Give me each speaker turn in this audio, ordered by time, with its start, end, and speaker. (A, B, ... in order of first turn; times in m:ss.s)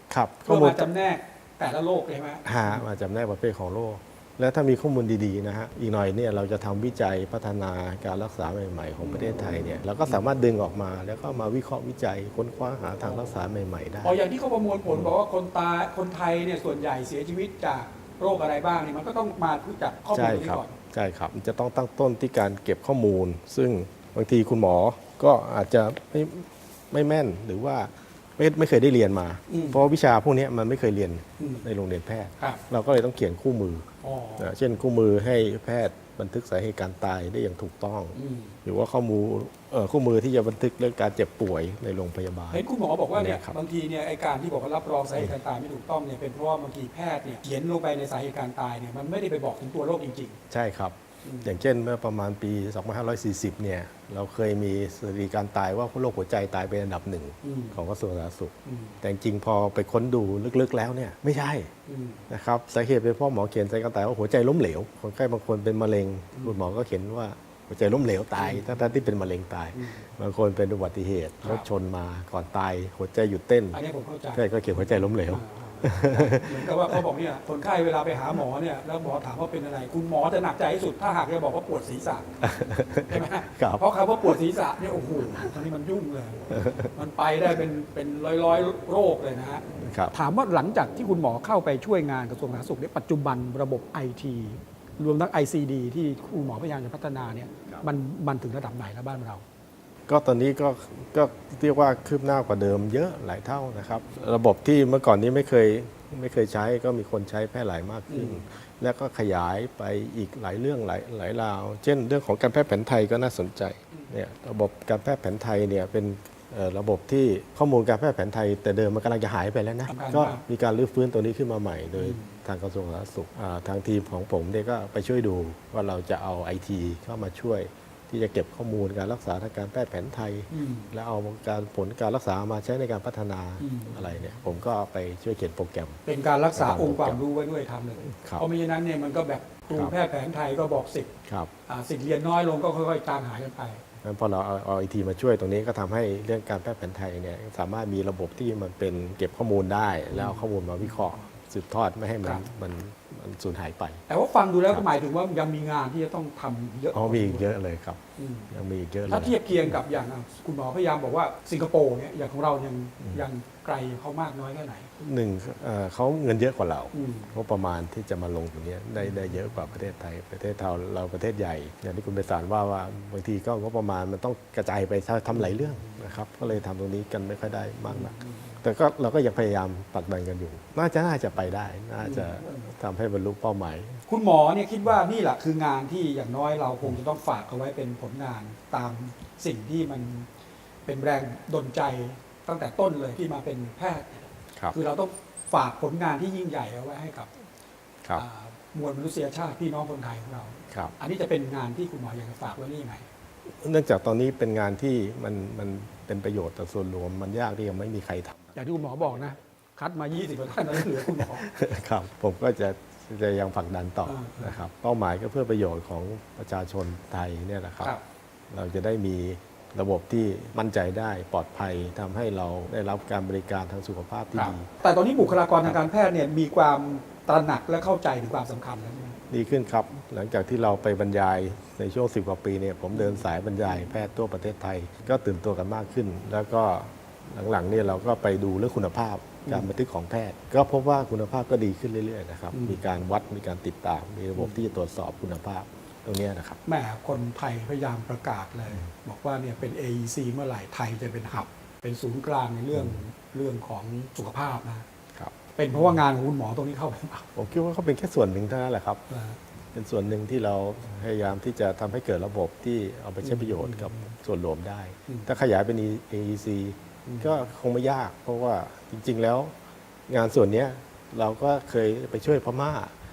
0:00.1-0:00.9 A
0:00.4-0:02.8 B
0:02.4-0:14.2 A
0:09.0-0:09.3 B
0:14.0-0:20.8 B
0:14.9-0:15.1 A
0:20.1-0:43.5 A
0:29.5-0:29.8 B
0:31.4-0:31.6 B
0:34.0-0:34.5 B
0:38.1-0:38.6 B
0:42.5-0:50.4 B
0:50.5-1:01.7 A
0:51.2-0:51.5 B
0:57.4-0:57.8 B
0:58.6-0:59.0 B
1:01.9-1:02.2 B
1:02.3-1:13.8 A
1:08.4-1:08.9 B
1:09.7-1:10.1 B
1:13.7-1:22.3 B
1:14.3-1:17.0 A
1:22.4-1:24.3 A
1:23.0-1:39.4 B
1:26.5-1:26.9 A
1:29.8-1:30.1 A
1:40.1-2:16.0 A
1:48.1-1:48.4 B
1:59.9-2:00.4 B
2:02.0-2:02.4 B
2:10.5-2:10.9 B
2:13.6-2:14.1 B
2:16.0-2:21.1 B
2:16.5-2:17.2 A
2:18.0-2:18.5 A
2:21.3-2:21.5 A
2:21.7-2:23.8 B
2:24.0-2:34.0 A
2:30.1-2:31.1 B
2:34.1-2:37.4 B
2:36.9-2:39.7 A
2:38.2-2:38.5 B
2:39.1-2:44.9 B
2:45.0-3:04.0 A
2:46.9-2:47.3 B
2:57.9-2:58.6 B
3:02.0-3:02.7 B
3:04.1-3:10.3 B
3:10.8-3:17.3 B
3:18.1-3:23.0 B
3:20.7-3:20.9 A
3:23.6-3:28.6 A
3:28.5-3:31.4 B
3:30.7-3:38.0 A
3:34.0-3:34.6 B
3:38.5-3:44.7 A
3:44.3-3:49.2 B
3:45.5-3:45.8 A
3:49.3-4:06.6 A
4:02.5-4:02.8 B
4:06.6-4:14.8 B
4:12.7-4:13.0 A
4:15.1-4:16.0 A
4:15.6-4:17.3 B
4:17.4-4:19.0 A
4:19.1-4:19.4 B
4:19.7-4:29.5 A
4:23.2-4:24.1 B
4:30.1-4:32.9 A